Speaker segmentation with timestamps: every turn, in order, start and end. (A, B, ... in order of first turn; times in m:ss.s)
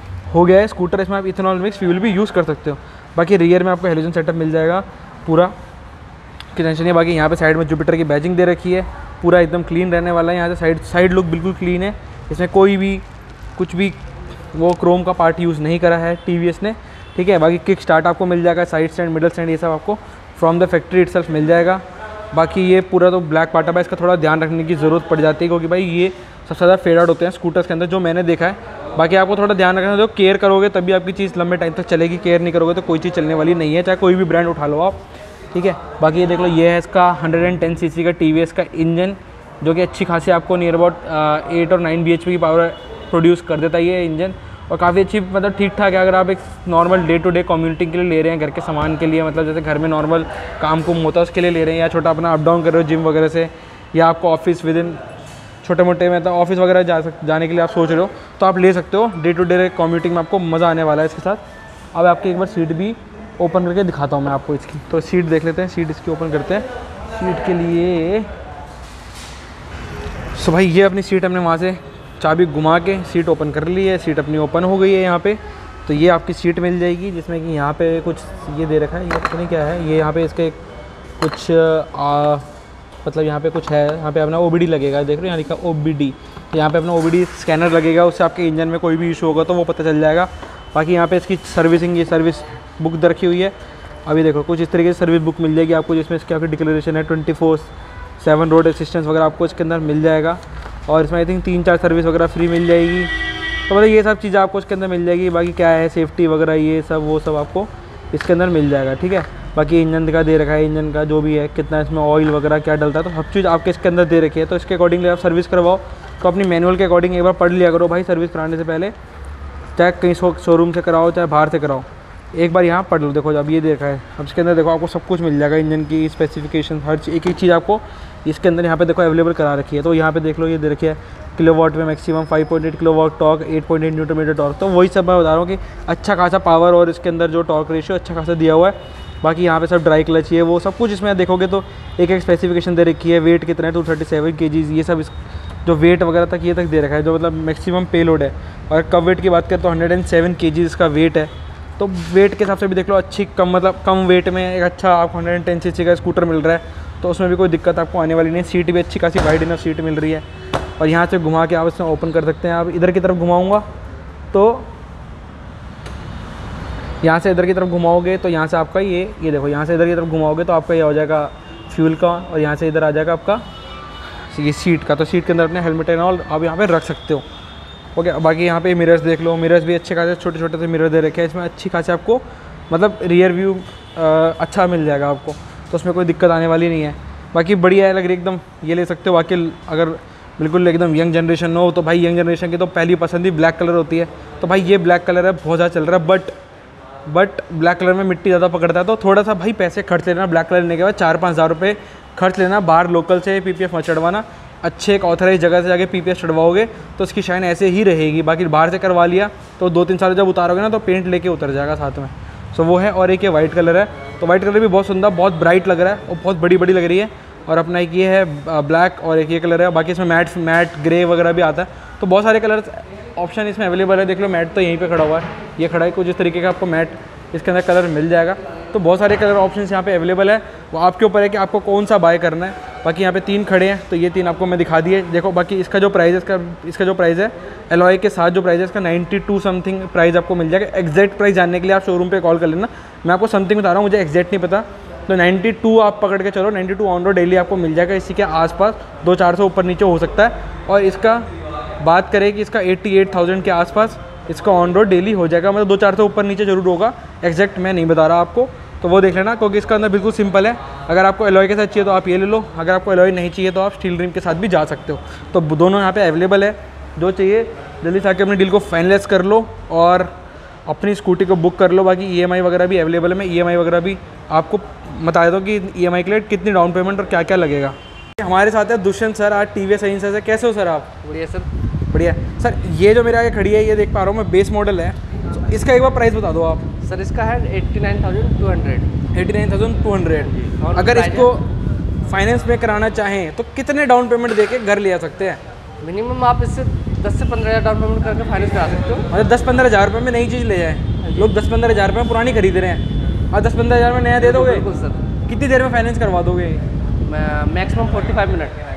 0:00.3-0:05.5 A
0:06.5-0:13.0 A
0:13.6-0:14.0 A
0:14.5-0:35.0 A
0:35.5-0:55.0 A
0:55.6-1:01.4 A
1:01.9-1:08.3 A
1:10.3-1:20.6 A
1:21.2-1:22.4 A
1:23.0-1:33.5 A
1:34.0-1:43.1 A
1:43.7-1:58.9 A
1:59.8-2:25.1 A
2:25.6-2:40.2 A
2:40.8-2:43.6 A
2:44.3-2:44.7 A
2:47.0-2:53.4 A
2:54.3-2:57.2 A
2:57.9-3:16.3 A
3:17.0-4:11.3 A
4:11.8-4:30.1 A
4:30.6-4:41.0 A
4:41.0-4:41.5 B
4:41.9-4:45.0 A
4:45.5-4:46.7 A
4:46.8-4:48.9 B
4:49.1-4:51.5 A
4:50.4-4:51.3 B
4:52.0-4:55.4 A
4:55.8-4:59.1 B
4:59.1-5:04.7 A
5:01.0-5:01.3 B
5:04.2-5:05.0 B
5:05.2-5:06.6 A
5:07.0-5:08.6 B